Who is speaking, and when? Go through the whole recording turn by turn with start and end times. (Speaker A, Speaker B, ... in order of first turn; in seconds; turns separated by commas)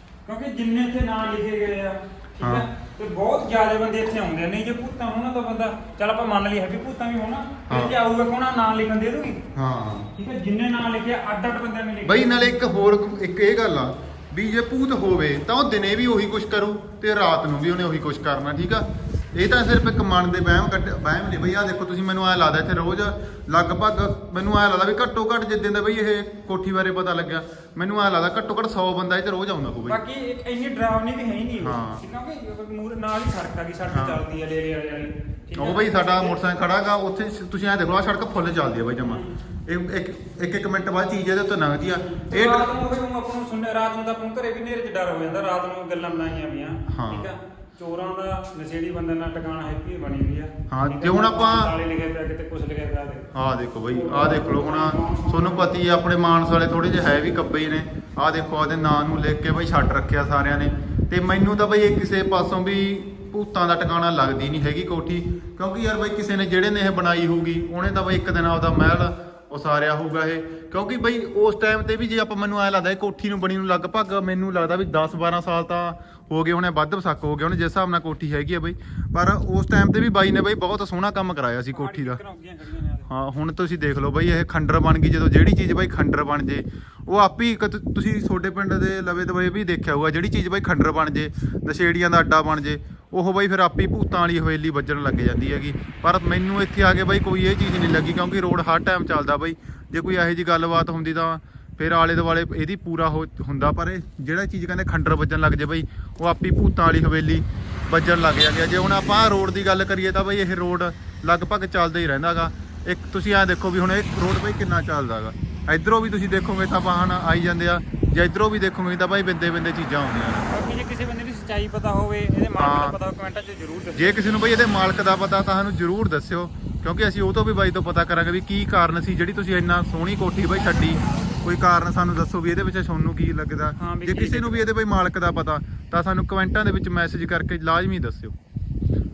Speaker A: 0.2-9.4, Speaker B: 2.4-2.6, Speaker B: 7.7-8.0, Speaker B: 9.5-10.1, Speaker A: 10.1-12.6, Speaker B: 12.0-30.0, Speaker A: 29.9-36.4, Speaker B: 31.6-32.0, Speaker B: 33.9-34.2, Speaker B: 35.6-42.7, Speaker A: 39.0-39.4, Speaker A: 42.1-53.3, Speaker B: 46.9-47.3, Speaker B: 50.7-51.7, Speaker B: 53.3-82.2, Speaker A: 53.9-55.7, Speaker A: 81.7-83.1, Speaker B: 83.1-120.5, Speaker A: 120.5-124.3, Speaker B: 122.6-123.0, Speaker B: 123.9-138.3, Speaker A: 130.5-131.4, Speaker A: 133.8-134.7